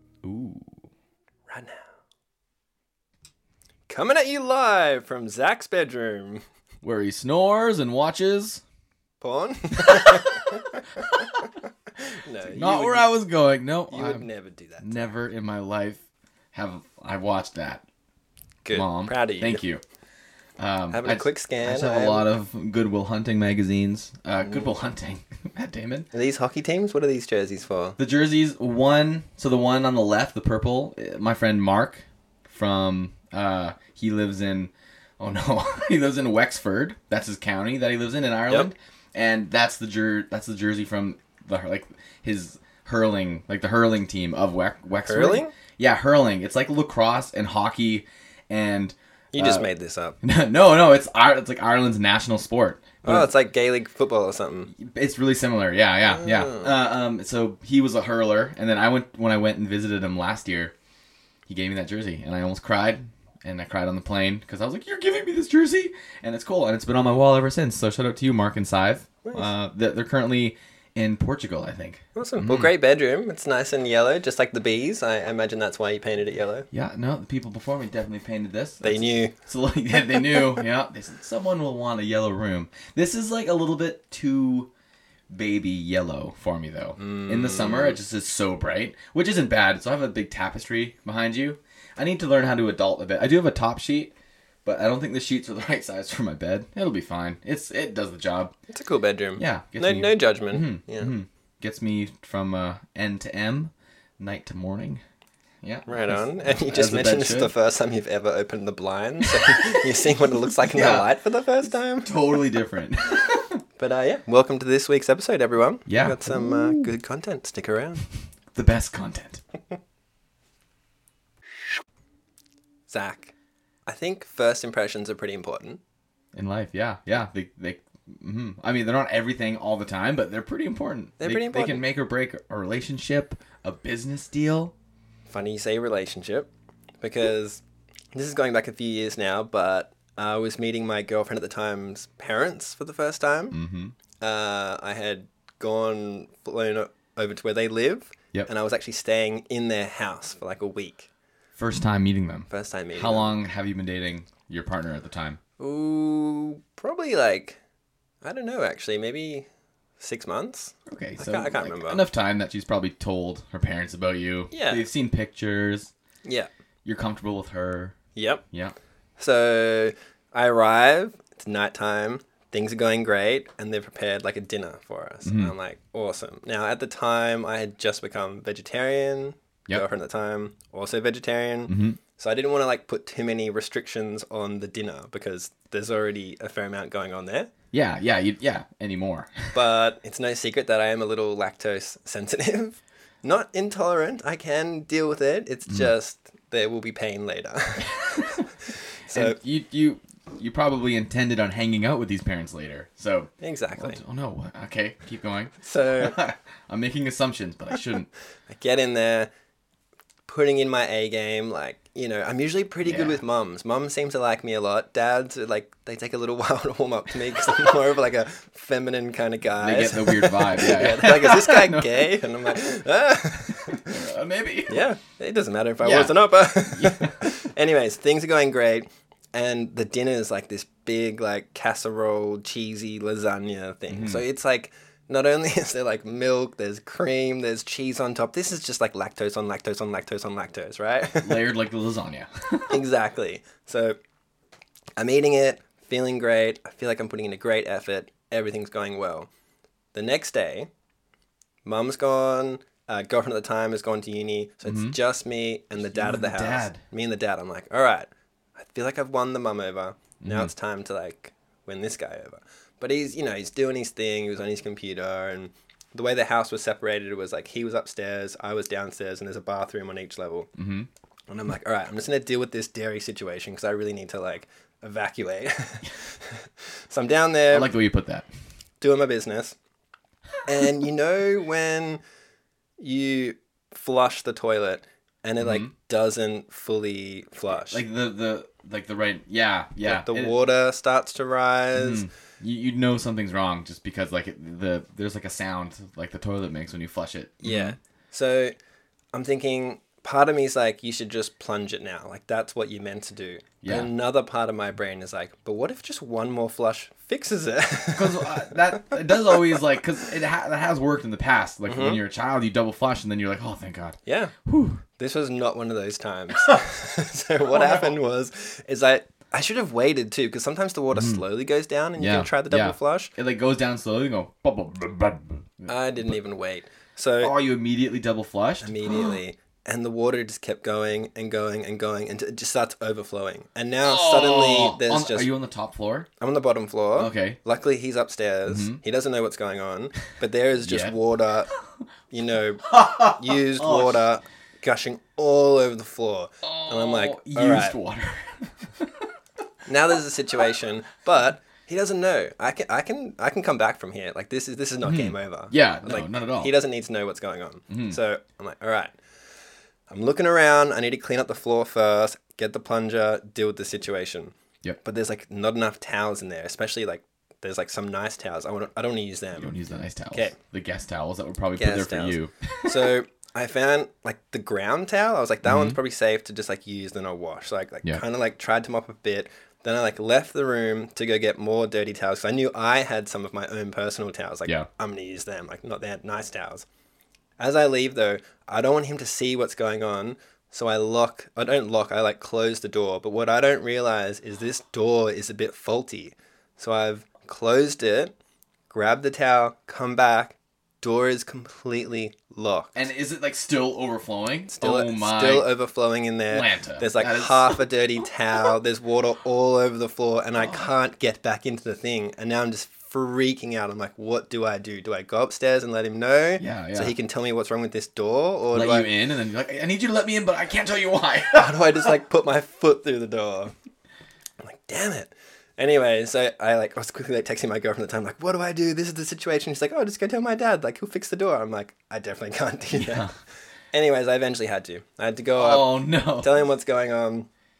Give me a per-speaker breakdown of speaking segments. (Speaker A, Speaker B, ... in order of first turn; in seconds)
Speaker A: 0.2-0.8, 6.8-8.6, 9.8-11.4, 12.5-14.2, 14.8-16.0, 16.5-17.8, 18.7-19.8, 20.6-26.1, 28.0-49.6, 50.2-53.3, 54.8-60.7, 61.5-72.7, 76.7-84.7, 85.3-94.1, 94.6-98.5, 99.4-105.0, 105.6-107.5, 109.3-109.8, 110.6-111.1, 112.0-113.6, 115.9-116.9, 118.5-119.4, 126.3-134.7, 143.5-143.9, 151.6-155.4, 160.8-165.9, 166.8-167.9, 175.2-175.5, 181.7-182.0, 187.7-189.5, 199.1-208.1, 212.8-213.2, 219.6-222.1, 223.5-224.9, 225.8-227.1, 233.9-234.2, 241.2-242.8, 254.7-254.9, 255.8-256.8, 260.2-260.5, 270.6-270.9, 277.5-278.3, 285.4-285.7, 287.7-290.3, 291.8-297.8, 303.6-303.9, 307.9-314.8, 317.5-318.0, 320.9-321.2, 322.0-325.7, 327.2-328.8, 333.8-336.1, 337.0-337.4, 338.5-338.8, 340.6-340.9, 342.7-344.0, 346.4-348.9, 354.8-356.5, 369.4-372.9, 375.4-375.8, 402.7-405.5, 406.3-407.6, 416.4-416.9, 418.5-421.7, 432.7-433.1, 435.4-436.3
Speaker B: 1.5-1.9, 3.9-6.4, 9.2-10.8, 12.0-13.1, 13.9-15.1, 18.6-19.6, 20.9-22.3, 26.1-28.0, 45.0-45.5, 49.3-50.2, 53.0-54.7, 72.1-76.7, 78.8-79.3, 87.0-88.0, 98.7-101.1, 105.9-112.1, 113.8-118.0, 122.9-123.3, 123.8-125.8, 131.2-131.8, 135.3-136.5, 137.0-137.6, 138.1-143.6, 144.2-151.1, 152.5-153.3, 155.6-157.6, 158.2-159.5, 160.0-162.0, 164.5-164.8, 166.2-166.5, 168.2-168.4, 169.2-187.5, 189.5-198.5, 199.1-199.4, 203.4-204.0, 205.6-206.2, 208.5-209.3, 210.3-224.0, 224.7-241.4, 242.7-244.0, 245.0-249.3, 249.9-250.7, 251.6-270.5, 271.3-277.7, 278.8-279.6, 280.4-282.0, 282.8-287.8, 289.8-292.1, 297.4-298.6, 299.1-308.9, 311.7-312.0, 314.1-314.3, 315.0-323.1, 325.7-327.3, 328.6-335.3, 336.2-341.5, 342.1-347.8, 349.6-358.9, 359.9-369.5, 371.6-386.6, 387.4-398.1, 398.7-402.7, 404.5-418.9, 421.3-423.5, 424.4-433.1, 433.7-437.3